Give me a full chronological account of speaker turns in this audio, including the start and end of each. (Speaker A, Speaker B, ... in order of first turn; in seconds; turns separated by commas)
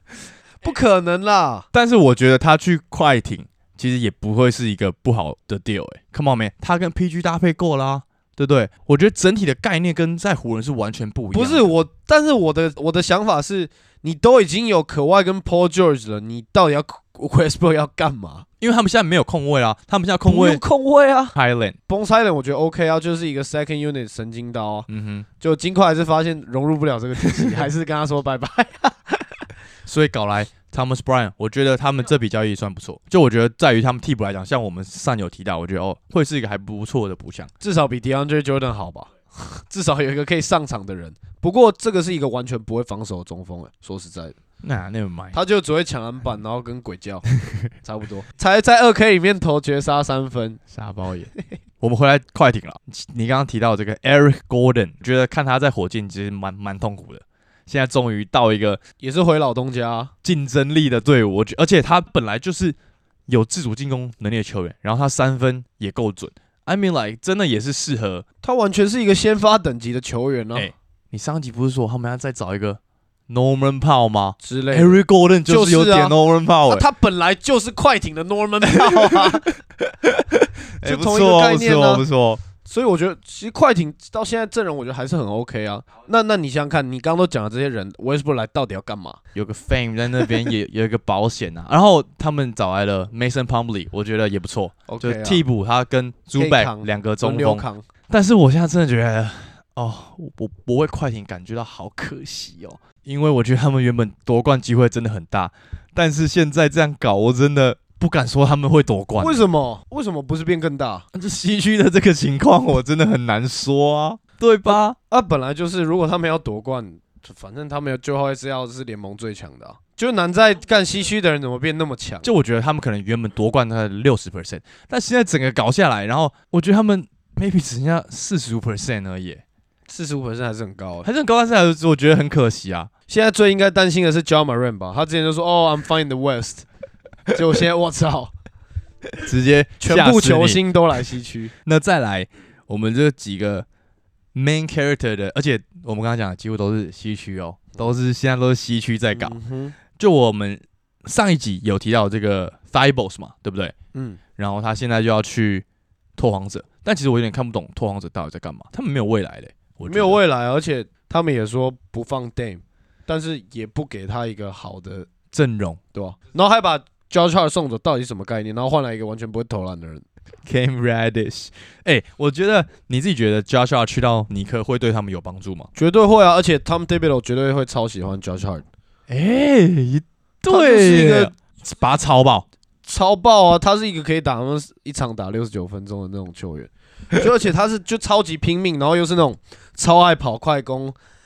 Speaker A: 0.6-1.7, Speaker B: 1.7-11.8, Speaker A: 11.3-18.4, Speaker B: 18.6-20.6, Speaker A: 20.2-21.4, Speaker B: 21.3-21.8, Speaker A: 21.9-24.9, Speaker B: 24.9-25.2, Speaker A: 25.4-29.4, Speaker B: 27.3-27.5, Speaker B: 29.9-37.5, Speaker A: 37.6-44.4, Speaker B: 44.6-45.4, Speaker A: 45.3-50.6, Speaker B: 50.7-58.8, Speaker A: 59.0-60.1, Speaker B: 60.2-62.8, Speaker B: 63.3-68.2, Speaker A: 68.4-70.7, Speaker B: 70.5-76.8, Speaker A: 74.4-76.2, Speaker A: 76.7-79.5, Speaker B: 78.8-82.4, Speaker A: 80.8-82.0, Speaker A: 82.6-89.2, Speaker B: 89.3-109.5, Speaker A: 94.9-95.4, Speaker A: 96.3-97.8, Speaker A: 109.2-111.0, Speaker B: 111.1-115.0, Speaker A: 114.7-122.3, Speaker B: 122.2-129.4, Speaker A: 129.9-131.1, Speaker B: 131.0-132.9, Speaker A: 133.1-136.6, Speaker A: 137.3-138.3, Speaker B: 139.2-140.6, Speaker A: 139.8-141.5, Speaker B: 141.6-143.7, Speaker B: 144.3-149.3, Speaker A: 149.1-149.7, Speaker B: 149.9-153.7, Speaker A: 153.9-154.2, Speaker B: 154.4-155.6, Speaker B: 156.2-160.2, Speaker A: 159.9-165.1, Speaker B: 165.3-165.8, Speaker A: 165.9-170.0, Speaker B: 170.4-175.7, Speaker A: 175.7-178.6, Speaker B: 179.1-182.4, Speaker A: 180.5-181.3, Speaker A: 182.8-190.9